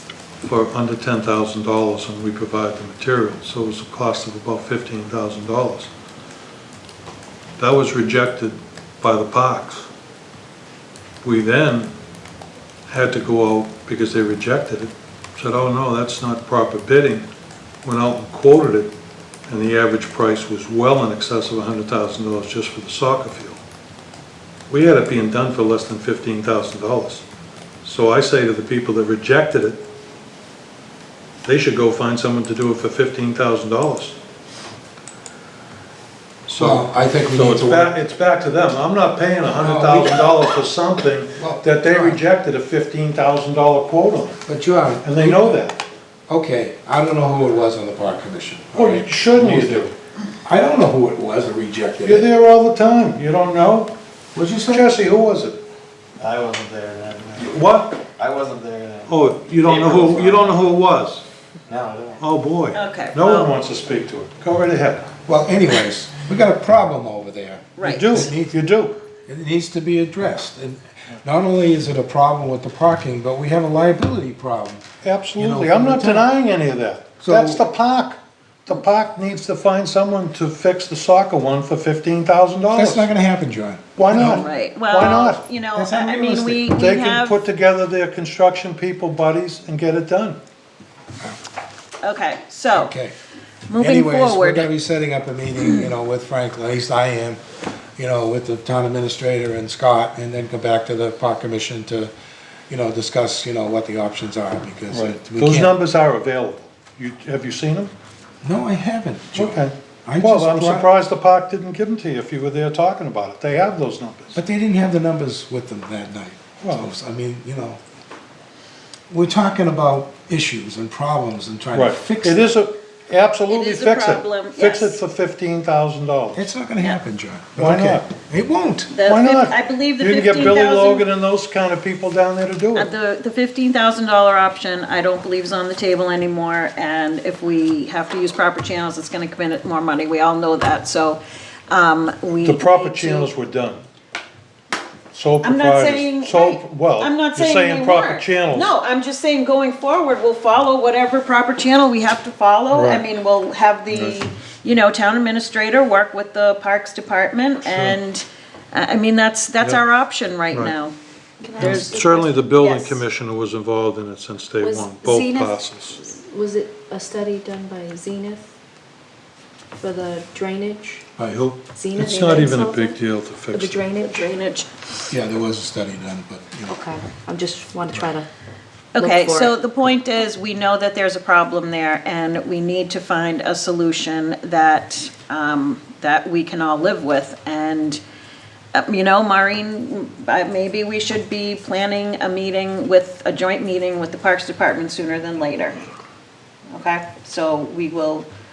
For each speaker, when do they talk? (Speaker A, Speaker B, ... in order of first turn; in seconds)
Speaker A: 0.4-5.9, 7.6-9.9, 11.2-11.9, 12.9-17.3, 17.8-18.9, 19.5-23.6, 24.7-27.2, 27.8-29.8, 31.4-34.2, 36.5-44.4, 45.0-45.8, 48.7-49.9, 52.0-53.9, 54.7-55.6, 57.3-58.1, 59.0-61.2, 62.2-65.1, 67.8-69.0, 75.0-83.1, 84.0-85.4, 86.7-90.4, 104.9-107.9, 109.3-114.4, 116.6-116.9, 121.7-126.4, 127.5-128.1, 129.0-132.9, 142.4-143.8, 145.1-148.7, 152.7-153.1, 153.9-154.2, 157.6-158.0, 161.6-166.0, 171.2-173.8
Speaker B: 36.6-37.9, 39.6-40.4, 41.4-42.2, 44.5-45.6, 46.3-49.9, 50.4-52.3, 54.3-54.9, 65.3-68.6, 69.3-74.8, 75.4-76.3, 77.2-77.6, 82.7-84.5, 85.7-86.6, 92.7-93.1, 93.8-97.4, 98.0-102.1, 102.7-105.7, 108.4-110.9, 114.3-117.8, 119.1-122.6, 126.3-128.9, 175.1-176.7
Speaker C: 56.2-57.4, 58.1-59.1, 59.6-60.7, 61.7-62.2
Speaker D: 62.7-63.5, 67.8-68.3, 84.1-87.4, 92.0-92.9, 93.7-94.7, 123.5-125.0, 128.9-131.1, 132.7-143.3, 145.4-160.9, 161.5-163.0, 174.0-174.9, 178.9-188.0, 188.7-195.8, 196.7-198.3
Speaker E: 161.4-162.1, 164.6-168.5, 169.8-171.0, 171.7-173.0, 173.5-174.3, 176.7-178.3, 178.9-179.5